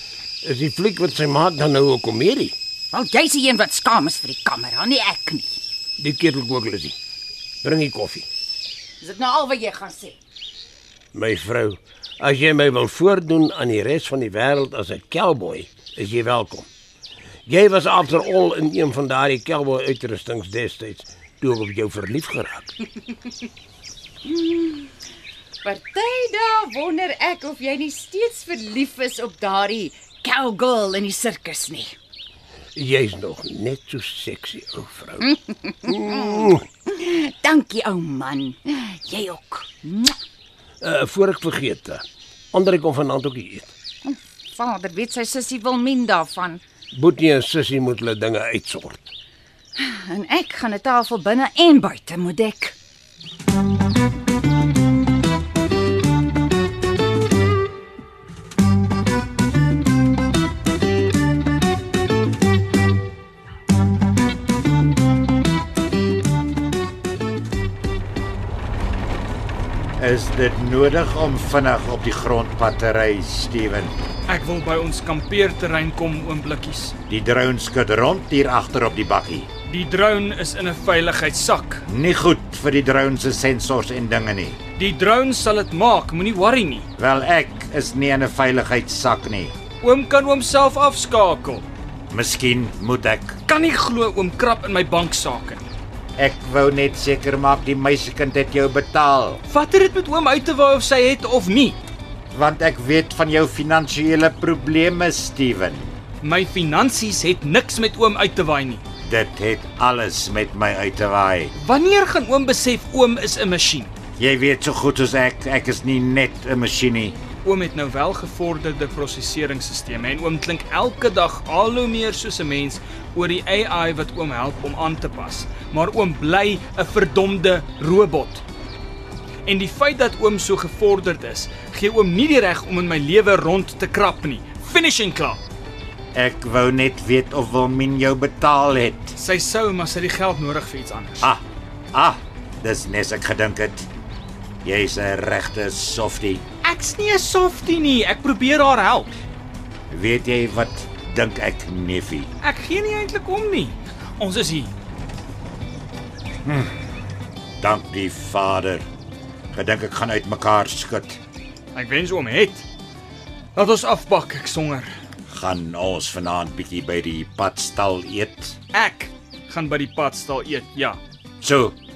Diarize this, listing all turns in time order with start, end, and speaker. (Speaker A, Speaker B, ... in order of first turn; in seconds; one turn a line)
Speaker A: 0.4-2.5
Speaker B: 2.9-5.6
Speaker A: 6.0-7.0
Speaker A: 7.6-8.3
Speaker B: 9.0-10.2
Speaker A: 11.1-16.7
Speaker A: 17.5-22.7
Speaker B: 24.2-24.9
Speaker B: 25.6-31.9
Speaker A: 32.8-35.3
Speaker B: 35.2-40.1
Speaker A: 35.9-36.6
Speaker A: 40.8-43.7
Speaker B: 44.0-46.6
Speaker A: 46.9-49.1
Speaker B: 49.8-52.8
Speaker C: 70.0-73.9
Speaker D: 74.3-76.9
Speaker C: 77.1-79.5
Speaker D: 79.7-81.8
Speaker C: 81.9-84.6
Speaker D: 84.8-86.9
Speaker C: 87.0-89.5
Speaker D: 89.8-91.6
Speaker C: 92.1-93.4
Speaker D: 93.5-95.7
Speaker C: 96.2-99.4
Speaker D: 99.5-101.8
Speaker C: 102.3-105.9
Speaker D: 106.2-108.8
Speaker C: 109.0-111.5
Speaker D: 111.5-113.9
Speaker C: 114.2-117.2
Speaker D: 117.4-128.4
Speaker D: 129.5-135.4
Speaker C: 136.1-139.1
Speaker D: 139.1-141.3
Speaker C: 141.2-143.9
Speaker C: 144.6-146.4
Speaker D: 146.6-149.1
Speaker C: 149.9-152.3
Speaker D: 152.4-154.7
Speaker C: 156.4-156.7
Speaker C: 157.6-158.9
Speaker C: 159.5-161.2
Speaker D: 161.7-162.6
Speaker D: 163.5-164.9
Speaker C: 165.3-168.6
Speaker D: 168.7-171.0
Speaker C: 171.4-171.8